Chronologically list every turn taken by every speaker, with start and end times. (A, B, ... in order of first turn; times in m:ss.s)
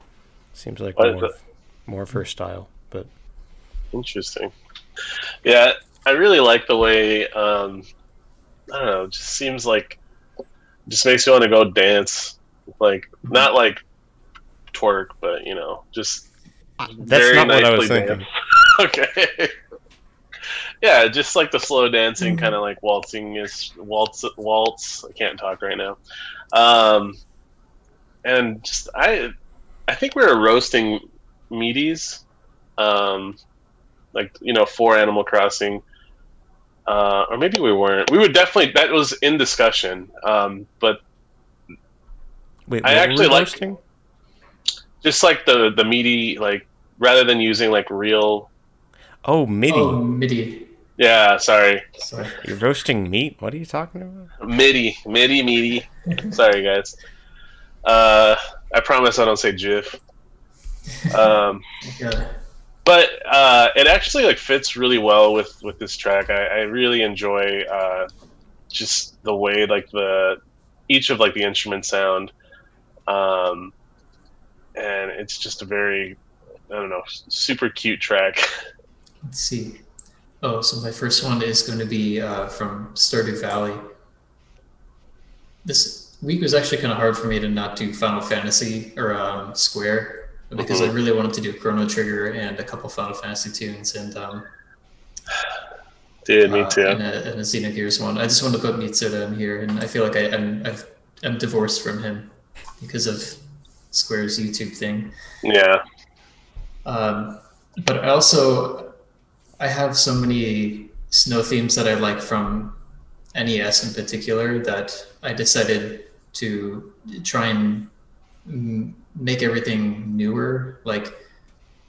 0:00.5-0:03.1 A
0:01.0-0:01.3 B
0:03.9-0:04.5 B
0:05.4-0:07.8 B
0:08.7-0:10.0 B
0:10.9-0:13.8 B
0:14.7-0:16.3 B
0:16.8-0:19.5 B
0:17.0-0:18.3 A
0:20.8-0:26.0 B
0:22.2-0:22.5 C
0:26.5-0:27.2 B
0:28.2-0:29.3 B
0:29.9-0:32.2 B
0:32.8-0:33.4 B
0:34.1-0:35.8 B
0:36.9-0:41.0 B
0:42.7-0:43.8 A
0:42.8-0:43.6 B
0:45.0-0:48.5 B
0:49.2-0:50.0 A
0:49.7-0:50.7 C
0:51.0-0:52.0 B
0:52.0-0:52.4 C
0:52.4-0:54.3 A
0:54.4-0:57.0 B
0:57.8-1:00.0 B
1:01.1-1:01.6 B
1:01.8-1:02.3 C
1:02.8-1:08.1 B
1:08.7-1:10.4 B
1:10.9-1:12.3 B
1:13.1-1:13.7 B
1:14.8-1:16.2 B
1:16.7-1:18.5 B
1:19.2-1:19.8 C
1:20.4-1:23.8 C
1:25.6-1:34.5 C
1:30.6-1:30.9 B
1:36.3-1:37.0 B
1:36.4-1:45.1 C
1:45.4-1:45.8 B
1:46.8-1:48.9 C
1:49.6-1:52.8 C
1:53.3-1:57.9 C
1:58.4-2:01.2 C